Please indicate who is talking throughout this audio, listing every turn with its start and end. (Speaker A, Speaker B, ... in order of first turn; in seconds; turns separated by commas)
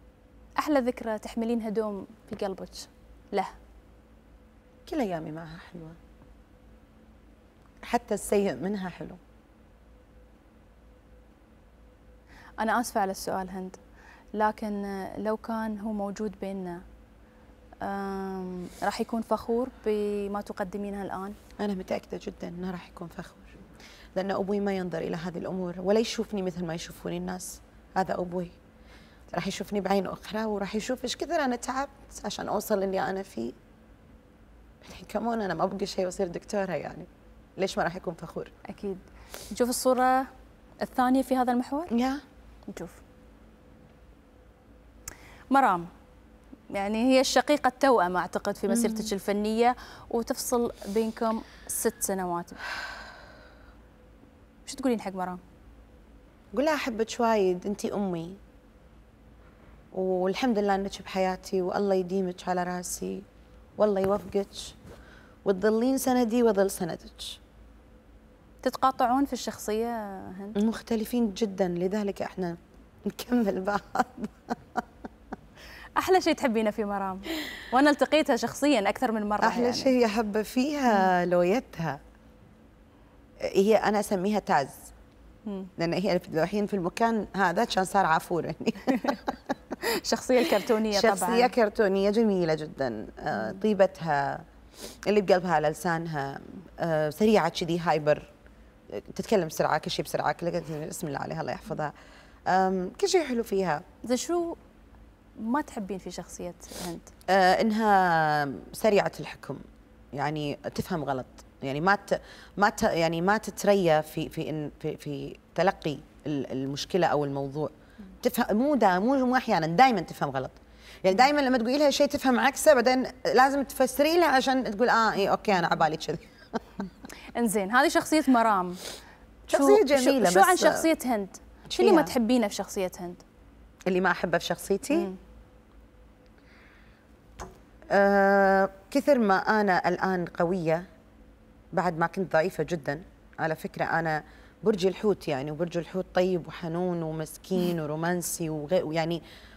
Speaker A: 0.6-3.5, Speaker B: 4.9-6.0, Speaker B: 7.8-9.2, Speaker A: 12.6-13.8, Speaker A: 14.3-16.8, Speaker A: 17.8-21.4, Speaker B: 21.6-23.6, Speaker B: 24.1-28.6, Speaker B: 29.3-33.5, Speaker B: 34.8-38.5, Speaker A: 38.6-40.3, Speaker A: 40.8-41.9, Speaker B: 41.9-42.2, Speaker A: 42.7-43.0, Speaker A: 45.5-45.9, Speaker A: 46.7-52.6, Speaker B: 48.7-49.1, Speaker A: 54.6-55.4, Speaker B: 56.5-58.4, Speaker B: 59.9-63.2, Speaker B: 63.8-64.8, Speaker B: 65.4-67.4, Speaker A: 68.6-70.6, Speaker B: 70.5-74.8, Speaker A: 76.0-79.9, Speaker B: 79.4-82.0, Speaker B: 83.4-84.8, Speaker B: 85.8-89.4, Speaker A: 89.8-91.5, Speaker B: 90.9-94.5, Speaker B: 95.0-98.3, Speaker B: 98.9-101.9, Speaker B: 102.5-103.8, Speaker A: 104.0-104.6, Speaker A: 105.4-107.1, Speaker B: 107.3-109.6, Speaker B: 110.1-126.6, Speaker A: 127.3-128.8, Speaker B: 129.5-130.9, Speaker A: 129.5-133.2, Speaker B: 131.7-132.1, Speaker B: 133.9-135.1, Speaker A: 134.9-135.2, Speaker B: 137.9-140.8, Speaker B: 141.7-149.2